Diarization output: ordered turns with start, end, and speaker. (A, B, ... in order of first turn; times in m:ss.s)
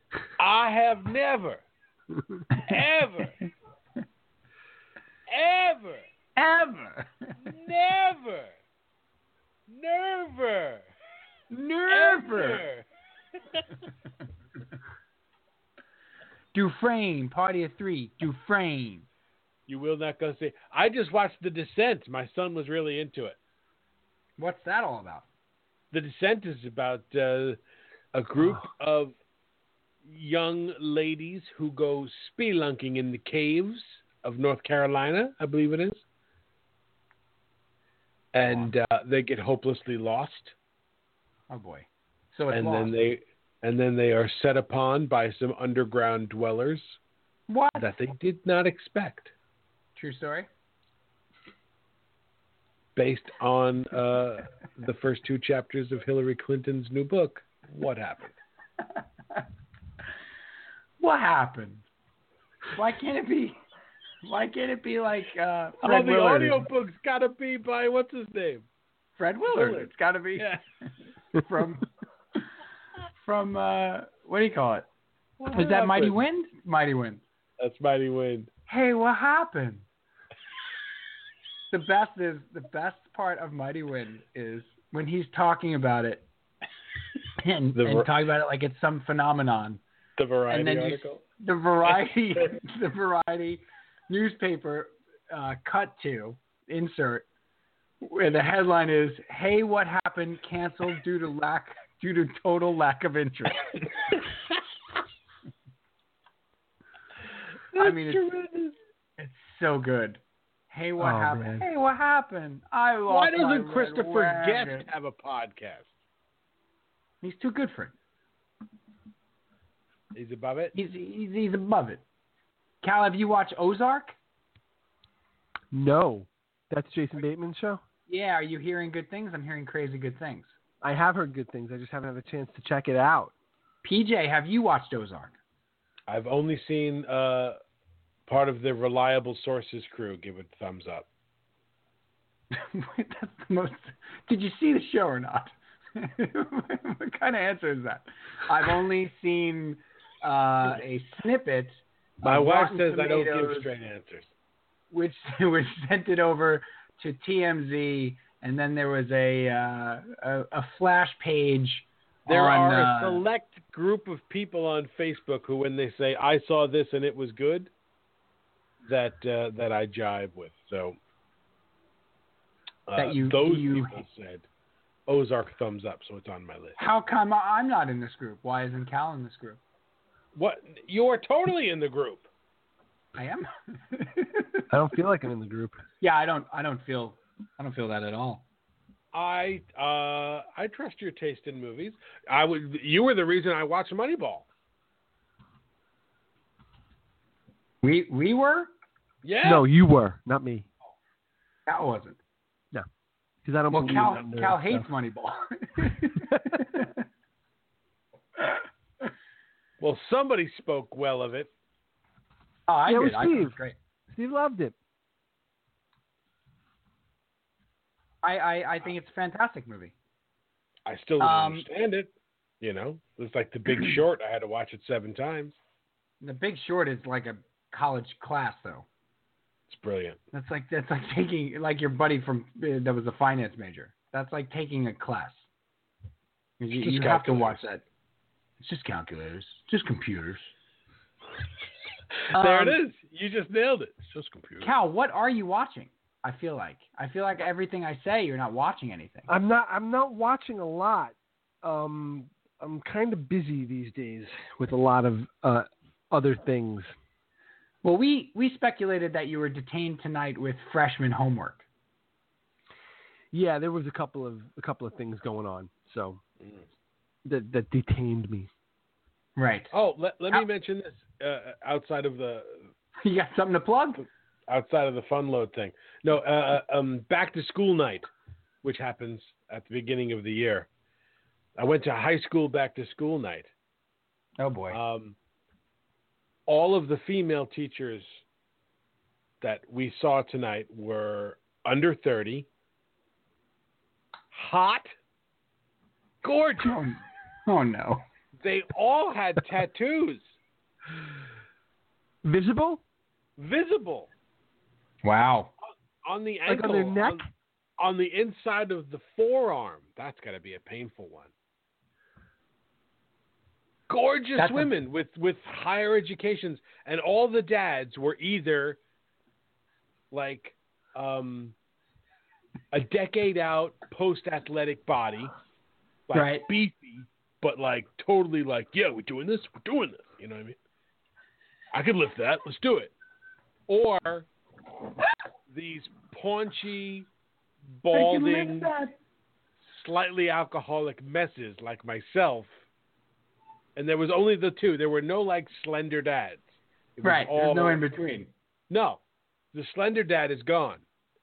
0:00.4-0:01.6 A
0:02.6-0:03.4 A
0:05.3-0:06.1 A
0:06.4-0:07.3 B
0:07.4-0:08.5 A
0:09.7-0:10.9 A
0:11.5-0:12.6 B
0:11.9-0:12.8 A
0:16.5-0:19.1 B
0:19.7-0:23.4 A
0:24.4-0:25.2 B
0:25.9-0:27.6 A
0:28.1-0:29.1 A
0:30.0-0:36.0 A
0:38.3-0:40.5 A
0:38.4-0:38.7 B
0:41.5-0:43.0 B
0:42.5-0:47.0 A
0:47.5-0:47.9 B
0:47.8-0:49.3 A
0:50.0-0:50.5 B
0:53.0-0:58.4 A
1:01.0-1:01.8 B
1:02.7-1:03.6 B
1:04.2-1:06.6 B
1:05.8-1:08.6 A
1:09.2-1:10.6 B
1:09.5-1:10.6 A
1:11.3-1:11.9 B
1:13.2-1:14.9 B
1:15.4-1:16.2 A
1:15.5-1:17.2 B
1:17.6-1:18.5 A
1:18.7-1:19.8 B
1:21.7-1:26.3 B
1:27.4-1:29.8 B
1:27.7-1:28.1 A
1:30.2-1:31.2 A
1:30.5-1:37.2 B
1:38.0-1:43.6 B
1:47.7-1:48.7 A
1:47.8-1:48.3 B
1:49.2-1:54.9 B
1:51.0-1:51.6 C
1:53.1-1:55.9 A
1:57.2-1:57.9 B
2:00.1-2:00.7 A
2:00.7-2:02.0 B
2:02.8-2:04.1 B
2:05.7-2:07.8 C
2:08.1-2:10.5 B
2:10.8-2:13.3 C
2:13.8-2:15.3 B
2:16.1-2:17.6 A
2:18.3-2:21.1 A
2:22.5-2:33.7 B
2:32.2-2:34.3 A
2:34.9-2:43.2 B
2:42.3-2:47.7 A
2:48.8-2:51.0 A
2:52.9-2:54.4 A
2:53.0-2:54.0 B
2:55.1-2:56.8 A
2:56.8-2:59.6 B
3:00.3-3:02.3 A
3:03.2-3:04.6 B
3:04.7-3:05.8 C
3:06.0-3:08.4 B
3:09.1-3:14.5 A
3:17.8-3:18.7 B
3:19.2-3:19.7 A
3:19.4-3:20.7 C
3:21.6-3:22.2 B
3:23.4-3:24.8 C
3:23.7-3:26.9 B
3:29.8-3:31.5 A
3:32.7-3:33.8 B
3:32.9-3:33.6 C
3:34.1-3:34.7 C
3:38.2-3:39.9 B
3:40.8-3:42.1 A
3:41.2-3:41.6 B
3:42.6-3:45.6 A
3:46.2-3:48.8 B
3:49.7-3:50.2 A
3:50.3-3:55.4 B
3:56.6-3:57.8 B
3:56.7-3:57.6 A
3:58.6-4:00.5 B
4:02.3-4:04.7 A
4:02.3-4:02.8 B
4:04.6-4:09.3 B
4:09.3-4:16.9 C
4:17.8-4:21.6 B
4:23.3-4:26.2 C
4:27.2-4:28.5 C
4:29.4-4:29.7 B
4:29.7-4:32.7 A
4:33.0-4:34.0 B
4:34.5-4:38.1 A
4:38.6-4:40.7 A
4:41.6-4:43.5 A
4:44.4-4:44.8 B
4:44.7-4:45.2 A
4:46.5-4:48.2 A
4:49.4-4:52.5 A
4:54.3-4:54.9 A
4:56.2-4:56.8 A
4:56.6-4:58.0 B
4:58.4-5:00.2 A
5:02.2-5:02.8 C
5:03.4-5:04.1 A
5:05.0-5:05.5 B
5:06.0-5:07.2 A
5:06.5-5:07.3 C
5:07.8-5:11.3 A
5:13.9-5:18.8 A
5:14.4-5:14.7 B
5:20.1-5:21.5 A
5:22.7-5:25.3 A
5:26.1-5:30.6 A
5:26.1-5:26.4 B
5:31.7-5:32.9 A
5:33.7-5:34.3 A
5:35.5-5:37.1 A
5:37.8-5:38.7 A
5:37.9-5:38.9 B
5:39.7-5:42.5 A
5:43.8-5:47.8 A
5:47.0-5:48.3 B
5:48.7-5:49.0 A
5:49.5-5:50.8 A